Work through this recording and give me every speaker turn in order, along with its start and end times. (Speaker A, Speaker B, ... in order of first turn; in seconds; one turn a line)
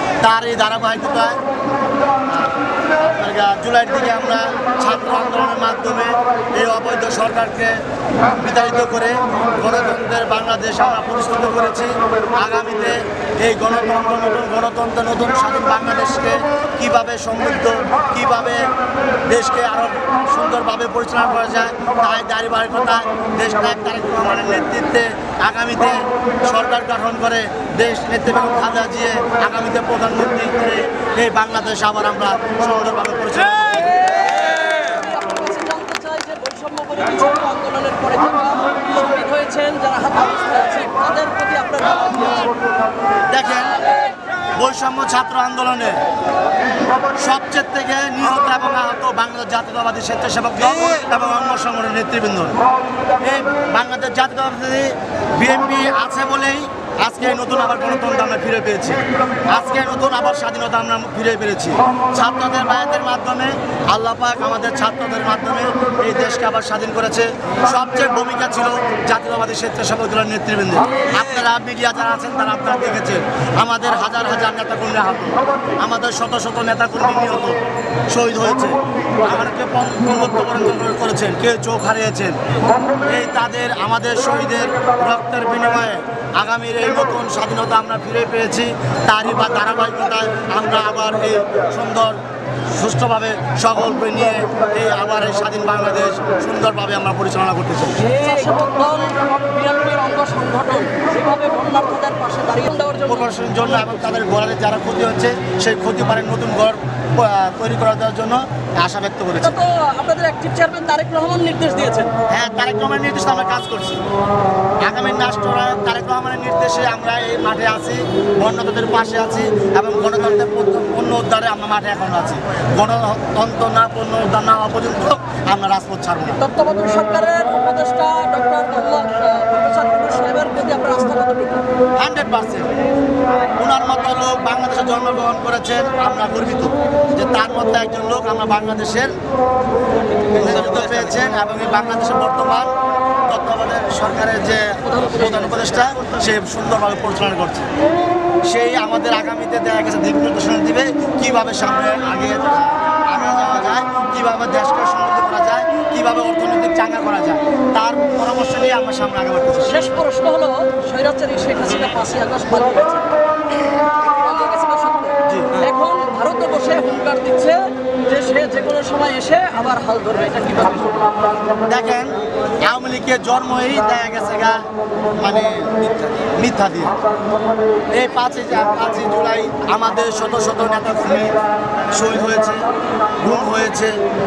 Speaker A: 0.2-1.4
Speaker A: 2.3-7.8
Speaker A: 8.3-18.7
Speaker A: 19.3-34.0
Speaker B: 33.7-42.5
Speaker A: 43.3-43.8
Speaker A: 44.5-46.0
Speaker A: 47.1-52.6
Speaker A: 53.2-77.6
Speaker A: 78.1-82.4
Speaker A: 83.1-92.2
Speaker A: 92.7-98.0
Speaker B: 98.0-103.9
Speaker A: 103.0-109.5
Speaker B: 109.3-112.1
Speaker A: 112.3-114.0
Speaker A: 114.8-126.4
Speaker B: 126.4-131.6
Speaker A: 132.0-132.7
Speaker A: 133.6-139.1
Speaker A: 140.3-142.7
Speaker A: 143.3-147.7
Speaker B: 144.8-145.7
Speaker A: 148.5-159.9
Speaker B: 159.6-163.1
Speaker B: 163.8-171.1
Speaker A: 165.3-165.6
Speaker A: 171.7-174.6
Speaker A: 175.2-176.9
Speaker A: 177.9-181.3
Speaker A: 181.9-182.7
Speaker A: 183.2-184.0